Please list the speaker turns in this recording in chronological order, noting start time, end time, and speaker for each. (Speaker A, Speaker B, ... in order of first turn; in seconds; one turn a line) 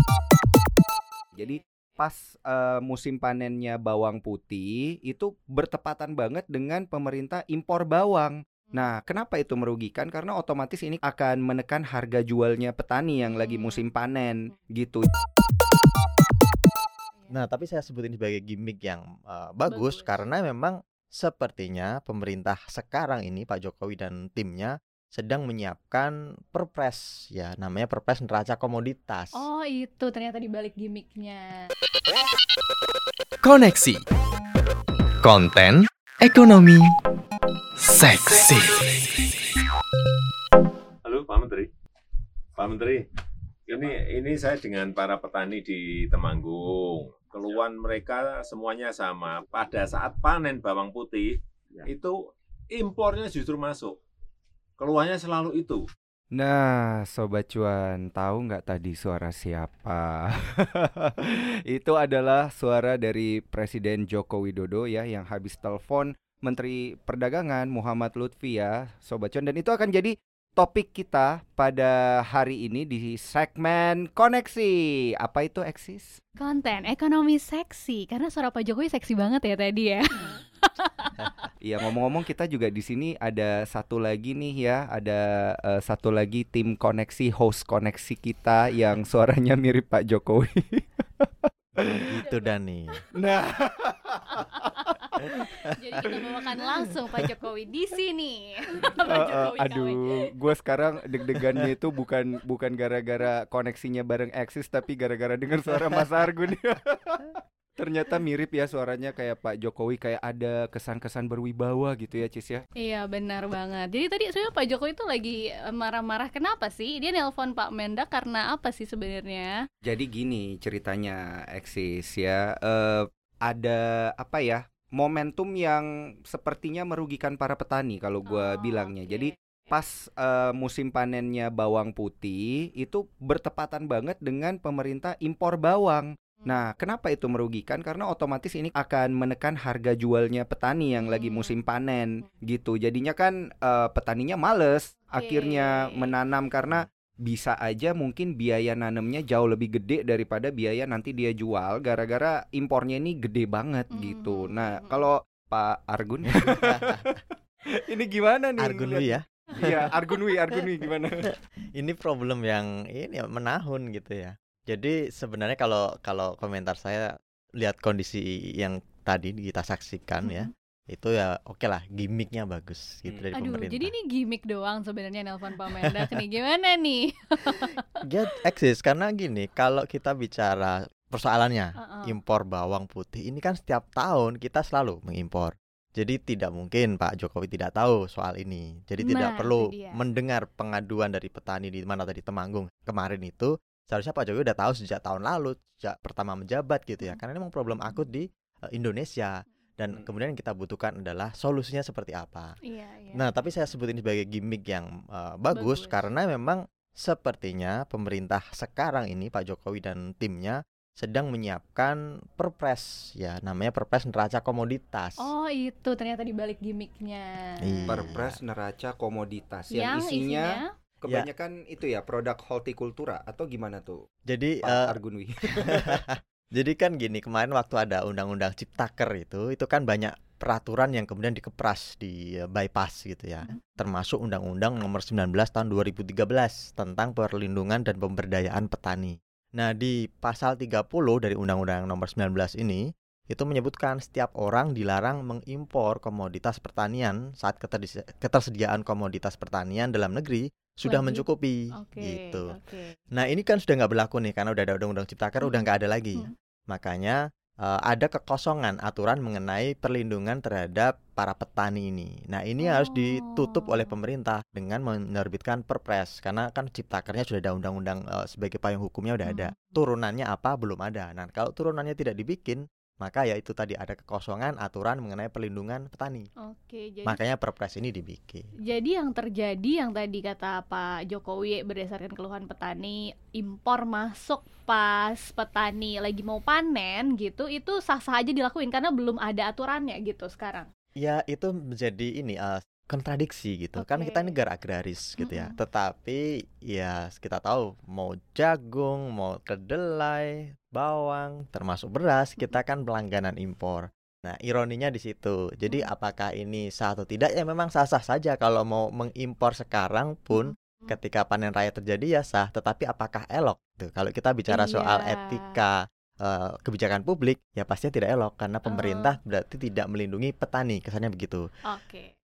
Speaker A: 1.3-15.1
Speaker B: 13.3-13.8
Speaker C: 17.3-29.4
Speaker B: 19.7-20.2
Speaker B: 29.4-31.7
Speaker D: 33.4-34.0
Speaker D: 35.2-36.9
Speaker D: 37.8-39.3
Speaker E: 41.0-41.7
Speaker E: 42.6-43.0
Speaker E: 43.7-52.2
Speaker E: 52.7-54.0
Speaker E: 54.8-55.9
Speaker A: 56.3-76.2
Speaker B: 76.4-81.3
Speaker A: 81.6-91.5
Speaker C: 91.8-92.9
Speaker B: 92.2-92.5
Speaker A: 93.1-94.9
Speaker B: 94.3-100.3
Speaker A: 99.0-112.6
Speaker B: 112.8-119.5
Speaker A: 119.8-161.3
Speaker B: 128.3-129.3
Speaker B: 141.1-141.6
Speaker B: 145.1-145.9
Speaker B: 153.9-155.0
Speaker C: 156.4-157.1
Speaker C: 158.6-159.8
Speaker C: 161.8-173.9
Speaker B: 170.2-170.5
Speaker B: 173.3-178.0
Speaker C: 178.0-202.6
Speaker B: 181.8-182.1
Speaker B: 189.0-190.0
Speaker B: 202.6-203.2
Speaker C: 203.1-215.3
Speaker B: 205.5-206.0
Speaker B: 215.2-218.0
Speaker C: 217.6-218.4
Speaker A: 217.9-224.0
Speaker B: 219.7-220.7
Speaker C: 224.3-224.9
Speaker A: 224.6-226.0
Speaker C: 225.6-252.5
Speaker B: 250.9-251.2
Speaker B: 251.8-252.9
Speaker C: 253.1-276.3
Speaker B: 262.6-263.9
Speaker B: 269.3-269.7
Speaker B: 276.4-277.2
Speaker C: 277.1-278.5
Speaker B: 278.6-290.7
Speaker C: 291.0-321.5
Speaker B: 293.8-294.4
Speaker B: 295.2-295.6
Speaker B: 310.3-311.0
Speaker B: 314.5-315.6
Speaker B: 318.7-319.2
Speaker B: 321.6-322.1